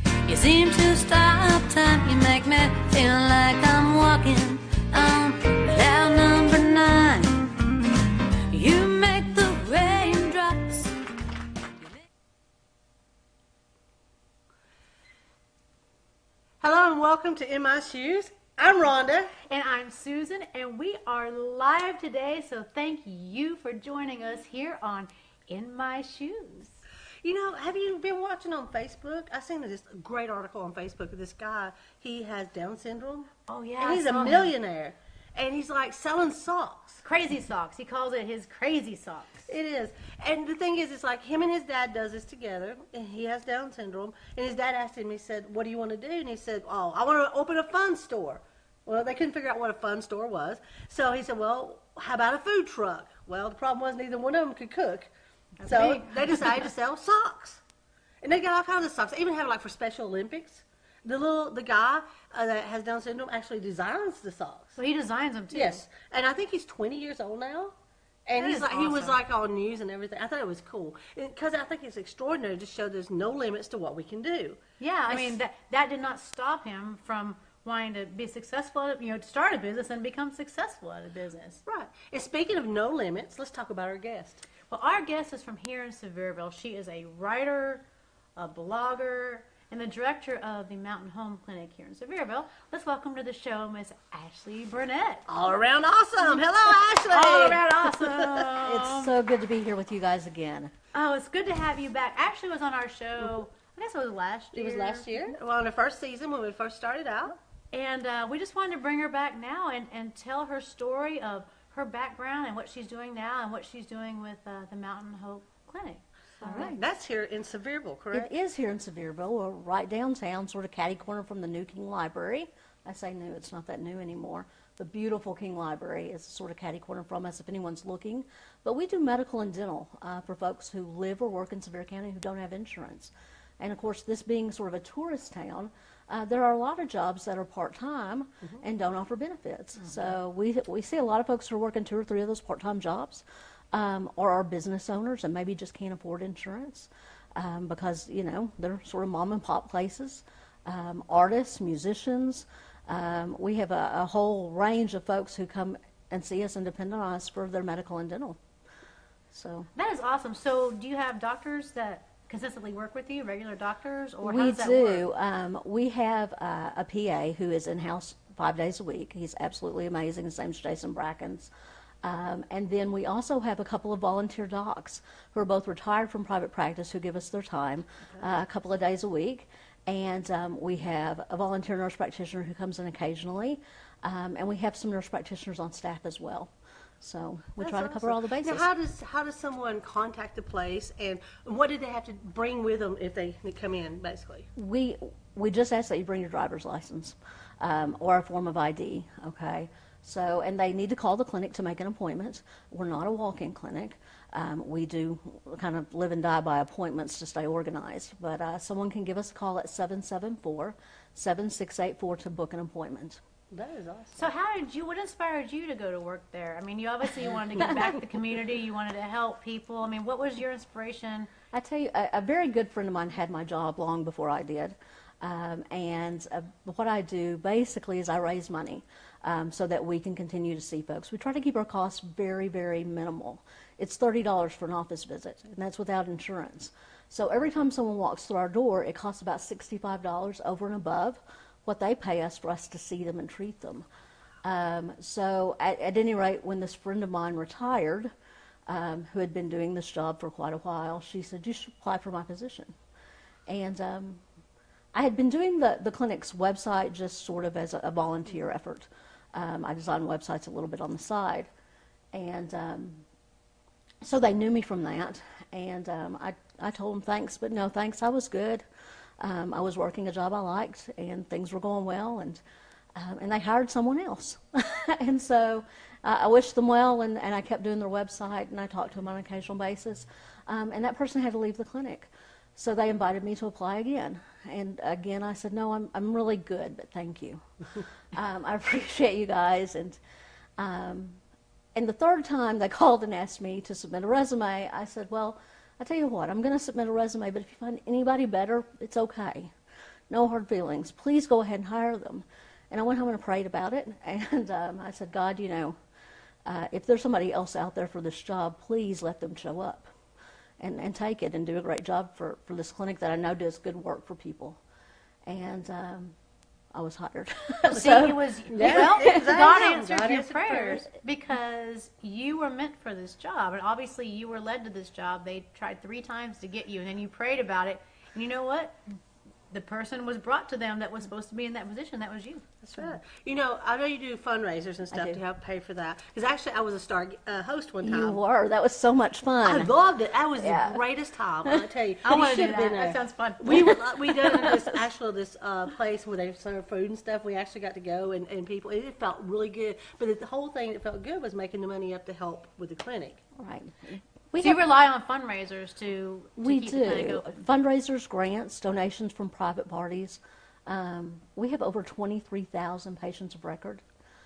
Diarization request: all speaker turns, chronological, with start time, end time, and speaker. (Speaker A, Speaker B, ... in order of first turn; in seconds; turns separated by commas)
Speaker A: 0.3-7.6, Speaker A: 8.5-11.0, Speaker B: 16.6-19.3, Speaker C: 19.5-26.8, Speaker B: 27.2-37.0, Speaker C: 33.5-34.5, Speaker C: 37.0-39.5, Speaker B: 39.5-55.1, Speaker C: 55.6-56.6, Speaker B: 55.7-57.6, Speaker B: 58.2-64.8, Speaker C: 64.8-65.8, Speaker B: 65.5-67.7, Speaker B: 68.3-75.4, Speaker C: 68.4-69.2, Speaker C: 74.8-81.6, Speaker B: 81.7-84.4, Speaker C: 84.7-87.8, Speaker C: 88.4-95.3, Speaker B: 95.3-98.5, Speaker C: 97.1-99.1, Speaker D: 98.6-100.7, Speaker C: 100.9-105.4, Speaker B: 104.5-107.4, Speaker C: 107.7-116.8, Speaker D: 116.5-116.8, Speaker B: 116.5-118.3, Speaker D: 118.1-158.4, Speaker D: 159.3-159.7, Speaker C: 159.8-165.1, Speaker D: 164.2-171.5, Speaker D: 172.0-188.7, Speaker B: 187.6-194.5, Speaker D: 194.6-213.2, Speaker B: 213.5-214.3, Speaker C: 214.2-221.3, Speaker D: 221.5-243.9, Speaker D: 244.4-248.1, Speaker D: 248.7-252.7, Speaker D: 253.5-254.2, Speaker D: 254.9-261.5, Speaker D: 262.1-263.1, Speaker D: 264.0-268.6, Speaker D: 269.2-272.4, Speaker D: 273.0-287.4, Speaker D: 288.1-290.0, Speaker D: 290.6-291.2, Speaker D: 291.8-299.5, Speaker D: 300.1-305.8, Speaker D: 306.5-309.9, Speaker D: 310.6-314.6, Speaker D: 315.3-316.1, Speaker D: 316.7-319.3, Speaker C: 317.6-328.8, Speaker B: 318.5-320.8, Speaker C: 329.5-332.5, Speaker B: 332.6-338.2, Speaker D: 334.9-335.2, Speaker D: 337.8-339.7, Speaker B: 339.4-353.2, Speaker D: 340.4-340.8, Speaker C: 342.0-343.8, Speaker D: 343.5-344.7, Speaker D: 353.4-354.7, Speaker C: 354.4-357.4, Speaker D: 356.4-363.8